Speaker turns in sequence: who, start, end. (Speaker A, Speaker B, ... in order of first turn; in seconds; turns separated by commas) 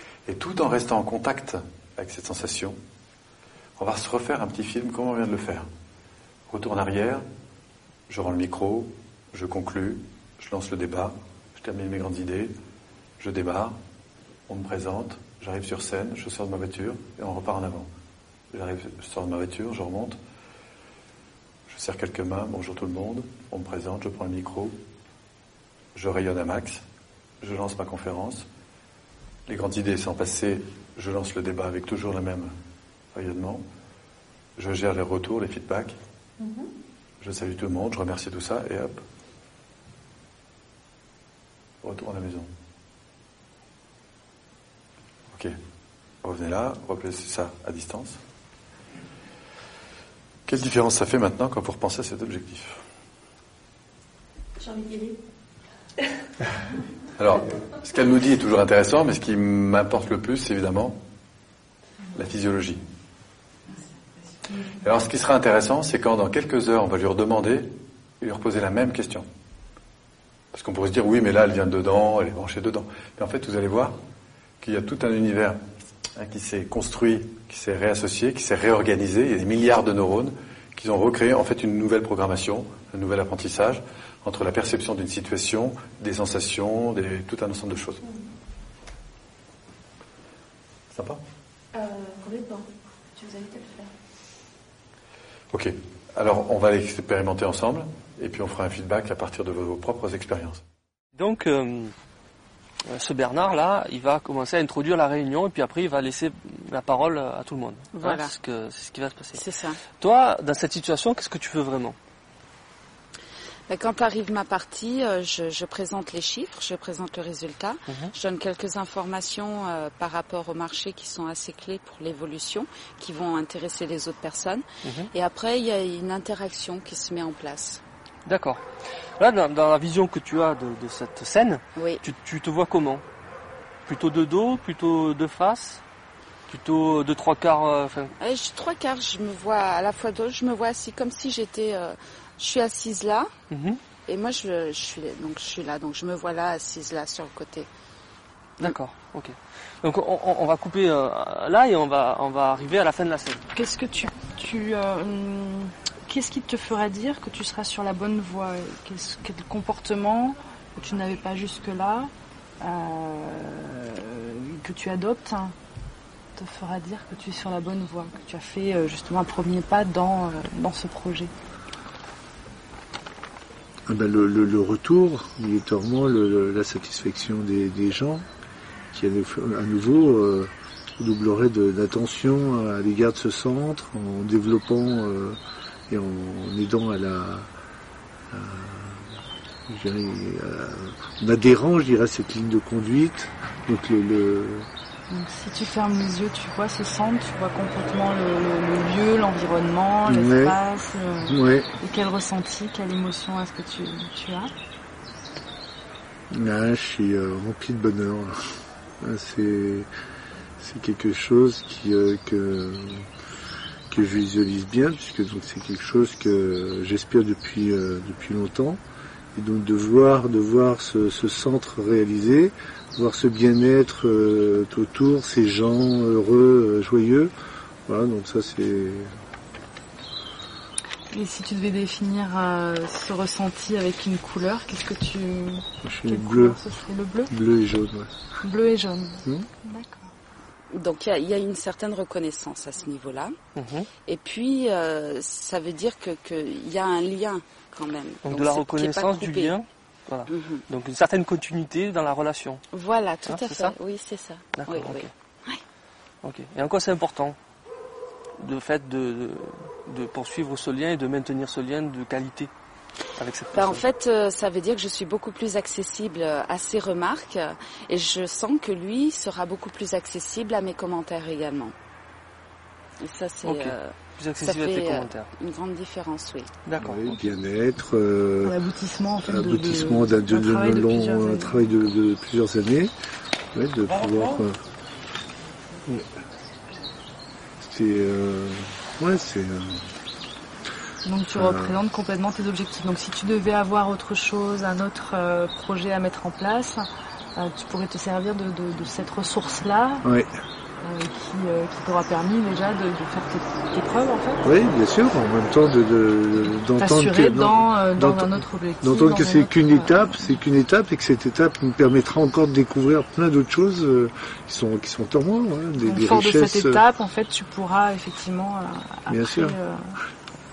Speaker A: 0.2-2.8, Speaker A: 3.8-5.7, Speaker A: 6.5-7.2, Speaker A: 8.1-12.5, Speaker A: 13.2-13.8, Speaker A: 14.5-17.9, Speaker A: 18.5-20.2, Speaker A: 21.7-24.7, Speaker A: 25.9-26.8, Speaker A: 27.4-28.4, Speaker A: 29.5-32.5, Speaker A: 33.1-33.6, Speaker A: 34.6-36.0, Speaker B: 36.4-36.7, Speaker A: 37.2-39.0, Speaker A: 41.8-42.5, Speaker A: 46.2-48.2, Speaker A: 50.5-52.8, Speaker B: 54.6-55.2, Speaker A: 57.1-61.0, Speaker A: 62.1-62.8, Speaker A: 64.7-69.2, Speaker A: 70.5-74.0, Speaker A: 74.6-75.6, Speaker A: 76.2-88.0, Speaker A: 90.9-91.2, Speaker B: 91.7-93.9, Speaker A: 95.5-100.6, Speaker C: 101.2-101.9, Speaker C: 102.9-112.0, Speaker D: 107.9-108.3, Speaker D: 109.3-109.8, Speaker D: 113.7-127.8, Speaker C: 128.2-128.6, Speaker C: 129.2-133.0, Speaker D: 131.8-132.0, Speaker C: 133.8-135.8, Speaker C: 136.5-138.1, Speaker D: 138.2-143.3, Speaker C: 143.5-143.8, Speaker D: 144.1-147.7, Speaker C: 148.6-153.4, Speaker E: 153.5-165.5, Speaker E: 166.4-171.3, Speaker F: 173.9-178.2, Speaker F: 178.9-185.4, Speaker F: 185.9-187.5, Speaker F: 188.3-189.2, Speaker F: 189.7-194.7, Speaker E: 195.1-204.5, Speaker F: 200.1-200.6, Speaker F: 201.2-201.7, Speaker F: 206.3-209.9, Speaker F: 210.6-213.1, Speaker F: 213.9-218.8, Speaker F: 219.3-227.3, Speaker F: 227.9-229.1, Speaker E: 231.1-237.3, Speaker F: 235.8-236.6, Speaker F: 237.3-238.1, Speaker E: 238.4-240.1, Speaker D: 240.7-243.3, Speaker C: 243.6-243.9, Speaker D: 244.0-249.5, Speaker C: 248.2-252.6, Speaker D: 250.3-250.6, Speaker D: 252.7-255.6, Speaker C: 253.2-253.8, Speaker C: 254.5-255.1, Speaker C: 256.2-257.4, Speaker C: 258.4-262.5, Speaker C: 263.2-263.8, Speaker D: 263.5-271.7, Speaker D: 273.0-276.5, Speaker C: 273.4-275.3, Speaker C: 276.6-277.2, Speaker F: 276.8-278.6, Speaker E: 278.4-281.7, Speaker F: 279.2-282.9, Speaker F: 283.5-284.6, Speaker F: 287.6-289.9, Speaker E: 291.0-296.8, Speaker F: 291.3-291.8, Speaker E: 297.4-300.0, Speaker F: 300.0-300.3, Speaker E: 300.8-304.4, Speaker F: 304.4-316.8, Speaker E: 306.4-310.4, Speaker E: 315.8-320.0, Speaker F: 319.1-319.6